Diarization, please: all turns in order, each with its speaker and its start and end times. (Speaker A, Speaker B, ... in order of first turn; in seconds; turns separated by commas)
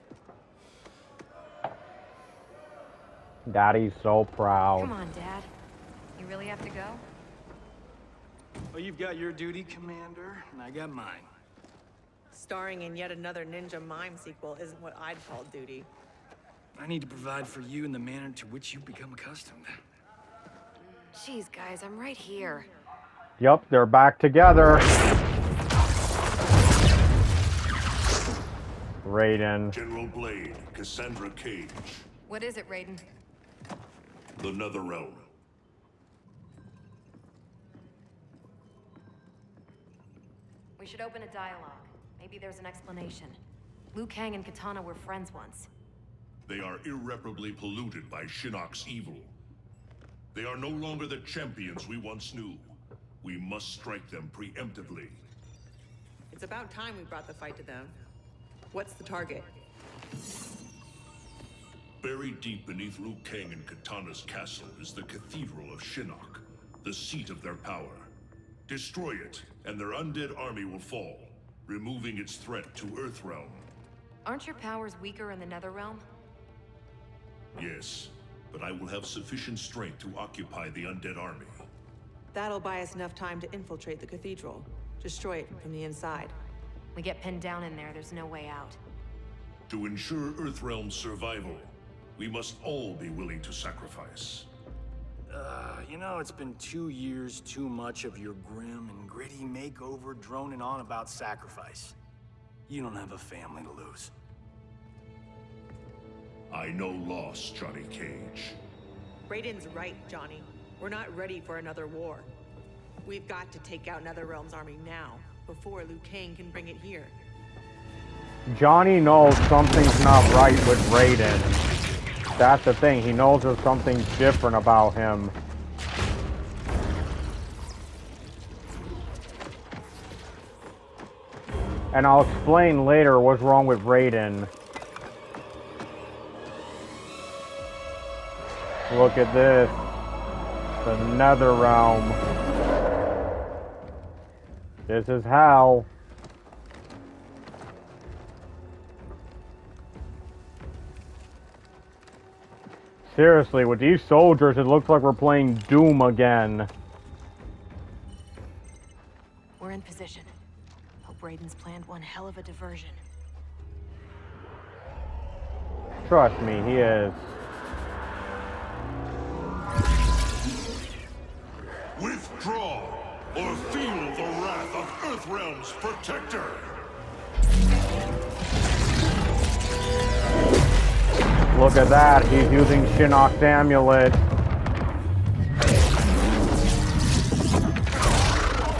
Speaker A: 3.5-4.9, Speaker B: 4.8-5.5, Speaker B: 6.2-7.0, Speaker C: 8.7-11.3, Speaker D: 12.3-15.9, Speaker C: 16.8-19.8, Speaker B: 21.1-22.7, Speaker A: 23.4-24.9, Speaker A: 29.1-29.7, Speaker E: 29.7-32.1, Speaker B: 32.3-33.0, Speaker E: 34.4-35.3, Speaker B: 40.8-43.4, Speaker B: 43.9-45.7, Speaker E: 46.5-49.3, Speaker E: 50.3-55.2, Speaker D: 56.3-58.0, Speaker D: 58.7-59.5, Speaker E: 62.0-68.1, Speaker E: 68.7-73.7, Speaker B: 74.2-76.0, Speaker E: 77.5-81.7, Speaker D: 82.3-86.4, Speaker B: 87.0-88.8, Speaker E: 89.7-94.5, Speaker C: 95.3-102.0, Speaker C: 102.7-104.1, Speaker E: 106.5-108.6, Speaker D: 109.3-112.3, Speaker D: 113.0-117.2, Speaker A: 118.5-121.6, Speaker A: 122.4-125.3, Speaker A: 131.9-134.5, Speaker A: 138.9-139.8, Speaker A: 140.8-142.2, Speaker A: 144.9-145.9, Speaker A: 153.1-156.7, Speaker B: 159.6-160.3, Speaker B: 161.0-163.0, Speaker A: 166.1-167.2, Speaker E: 172.0-176.7, Speaker A: 181.5-184.2